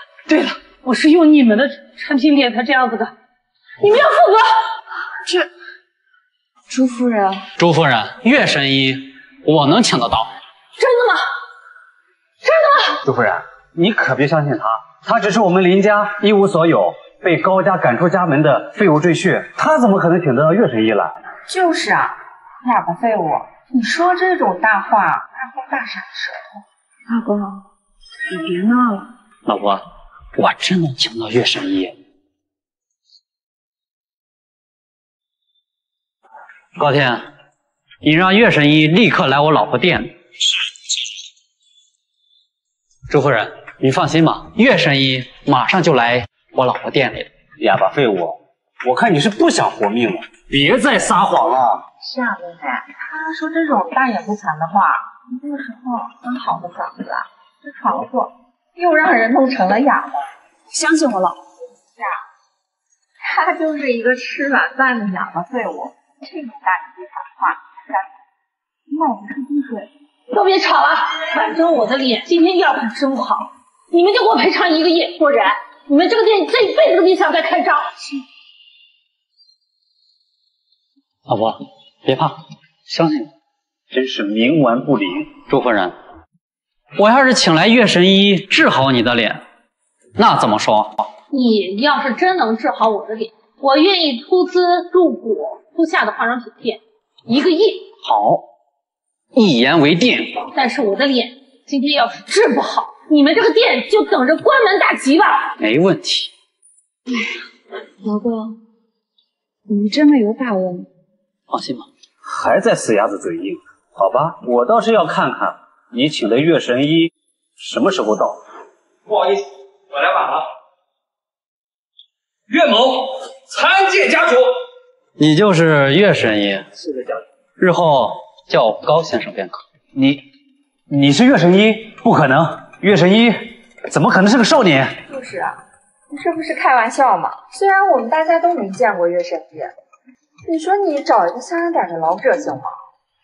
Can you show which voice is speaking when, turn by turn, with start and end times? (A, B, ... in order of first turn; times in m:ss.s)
0:00.3-0:03.1 A
0:03.8-0:04.6 A
0:06.7-0:07.4 B
0:07.6-0:10.3 C
0:10.8-0:11.2 A
0:12.4-0:13.0 A
0:13.0-0:21.1 D
0:21.5-0:26.6 E
0:27.1-0:27.7 B
0:28.3-0:29.1 B
0:29.4-0:29.8 C
0:30.4-0:32.0 C
0:36.8-0:37.2 C
0:38.0-0:40.1 C
0:43.1-0:47.3 C
0:47.6-0:51.8 D
0:52.0-1:00.3 E
1:00.7-1:01.4 B
1:03.2-1:08.0 E
1:08.9-1:09.9 E
1:10.3-1:17.9 A
1:21.3-1:22.4 C
1:22.9-1:23.3 C
1:23.9-1:25.2 D
1:25.3-1:26.0 C
1:27.0-1:29.4 C
1:30.2-1:31.1 C
1:31.3-1:37.9 A
1:38.0-1:38.4 C
1:39.4-1:40.4 C
1:40.5-1:45.5 A
1:45.6-1:46.3 C
1:48.0-1:48.4 B
1:48.2-1:48.5 E
1:49.7-1:50.9 B
1:51.5-1:51.9 C
1:52.2-1:58.4 D
1:59.1-1:59.4 F
1:59.9-2:00.4 F
2:02.5-2:04.4 F
2:05.2-2:06.7 C
2:07.6-2:09.6 C
2:09.9-2:10.2 D
2:10.9-2:15.0 D
2:15.1-2:15.6 E
2:16.1-2:19.7 E
2:20.5-2:22.8 E